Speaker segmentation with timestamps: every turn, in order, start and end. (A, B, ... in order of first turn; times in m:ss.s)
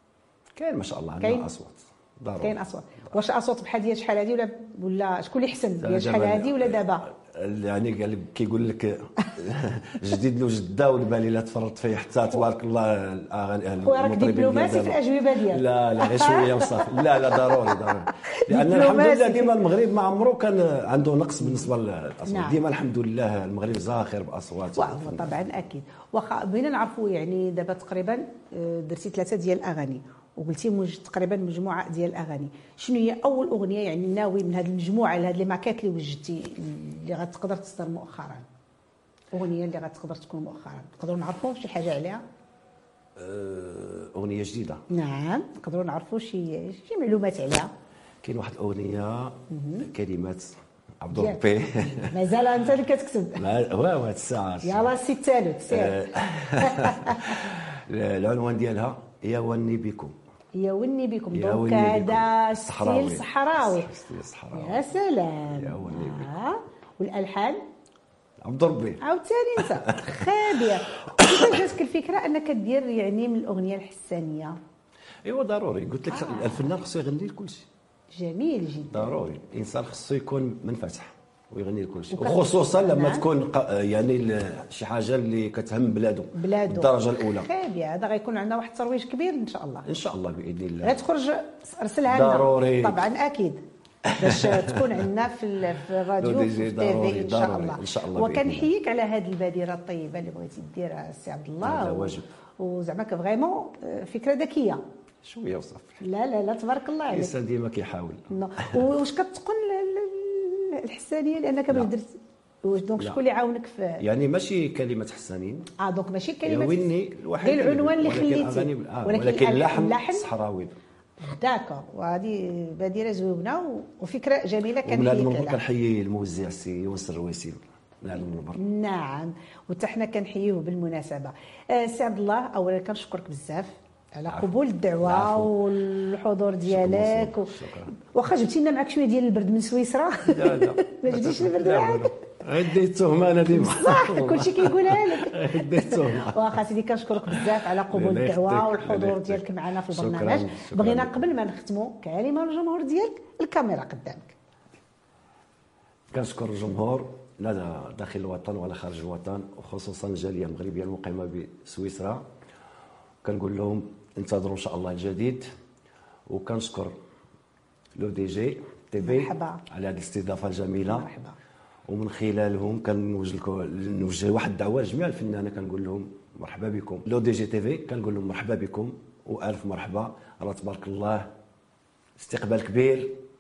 0:00.6-0:02.6 A
0:01.2-0:01.5 B
0:02.4-0:07.1 B
0:05.8-0:25.4 A
0:13.8-0:19.6 B
0:22.3-0:22.6 B
0:24.8-0:38.4 B
0:39.3-0:42.2 B
0:43.2-0:44.8 A
0:44.9-0:47.7 B
0:48.2-0:52.2 A
0:49.5-0:49.9 B
0:51.1-0:53.4 B
0:53.4-0:54.9 A
0:54.6-0:57.5 B
0:55.7-1:00.1 A
1:00.6-1:03.9 B
1:01.3-1:04.8 A
1:04.5-1:07.6 B
1:05.5-1:06.3 A
1:08.4-1:09.0 A
1:09.0-1:14.6 B
1:09.6-1:10.3 A
1:15.2-1:17.7 A
1:16.1-1:16.6 B
1:18.1-1:19.2 B
1:18.9-1:27.5 A
1:22.1-1:23.3 B
1:26.3-1:29.9 B
1:29.8-1:31.0 A
1:30.8-1:44.8 B
1:32.1-1:33.0 A
1:34.0-1:35.0 A
1:36.2-1:38.7 A
1:41.6-1:42.3 A
1:45.2-1:46.0 A
1:46.0-1:47.3 B
1:47.1-1:48.8 A
1:48.3-1:54.0 B
1:54.0-1:55.7 A
1:55.8-2:00.3 B
1:56.4-2:00.7 A
2:01.2-2:05.6 B
2:04.8-2:08.6 A
2:08.5-2:22.1 B
2:14.3-2:15.6 A
2:16.6-2:17.9 A
2:20.2-2:26.6 A
2:23.5-2:34.3 B
2:27.2-2:31.2 A
2:36.1-2:42.2 A
2:43.2-2:45.4 A
2:46.3-2:46.9 A
2:48.0-2:51.1 A
2:49.0-2:49.6 B
2:50.8-2:51.4 B
2:51.9-3:01.3 A
3:02.2-3:03.2 A